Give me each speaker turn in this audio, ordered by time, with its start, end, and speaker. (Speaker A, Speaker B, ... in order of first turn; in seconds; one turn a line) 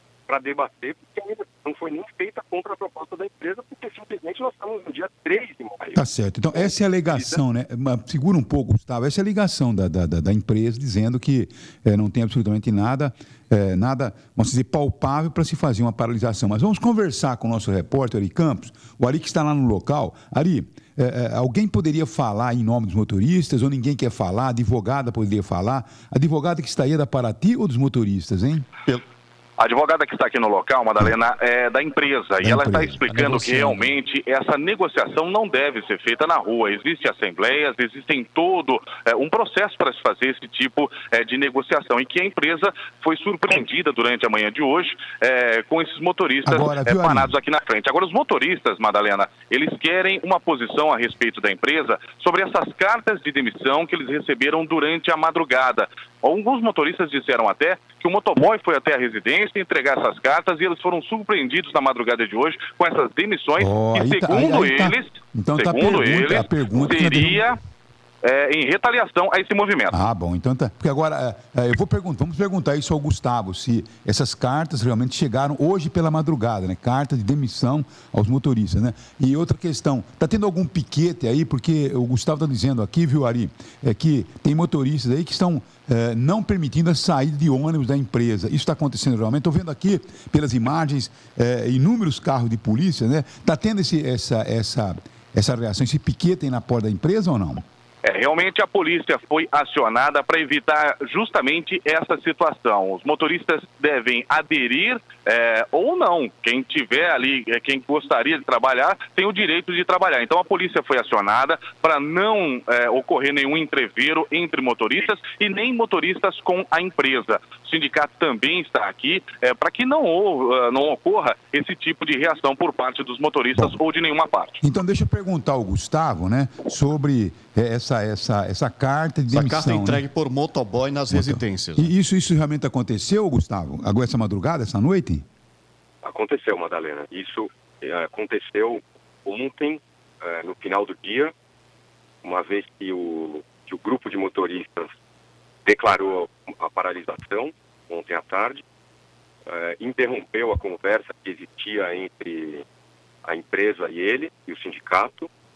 Speaker A: 0.3-6.0
Speaker B: 6.0-28.7
Speaker A: 6.5-7.4
Speaker C: 29.6-67.6
Speaker B: 32.4-33.0
Speaker D: 33.1-33.9
Speaker B: 46.5-47.3
Speaker B: 63.6-67.4
Speaker C: 68.2-70.0
Speaker B: 69.9-97.6
Speaker C: 98.0-124.6
Speaker B: 124.6-130.1
Speaker D: 129.3-131.9
Speaker B: 131.1-135.2
Speaker A: 136.0-141.3
Speaker A: 142.2-144.9
Speaker A: 145.7-148.6
Speaker A: 149.5-152.6
Speaker A: 153.2-155.3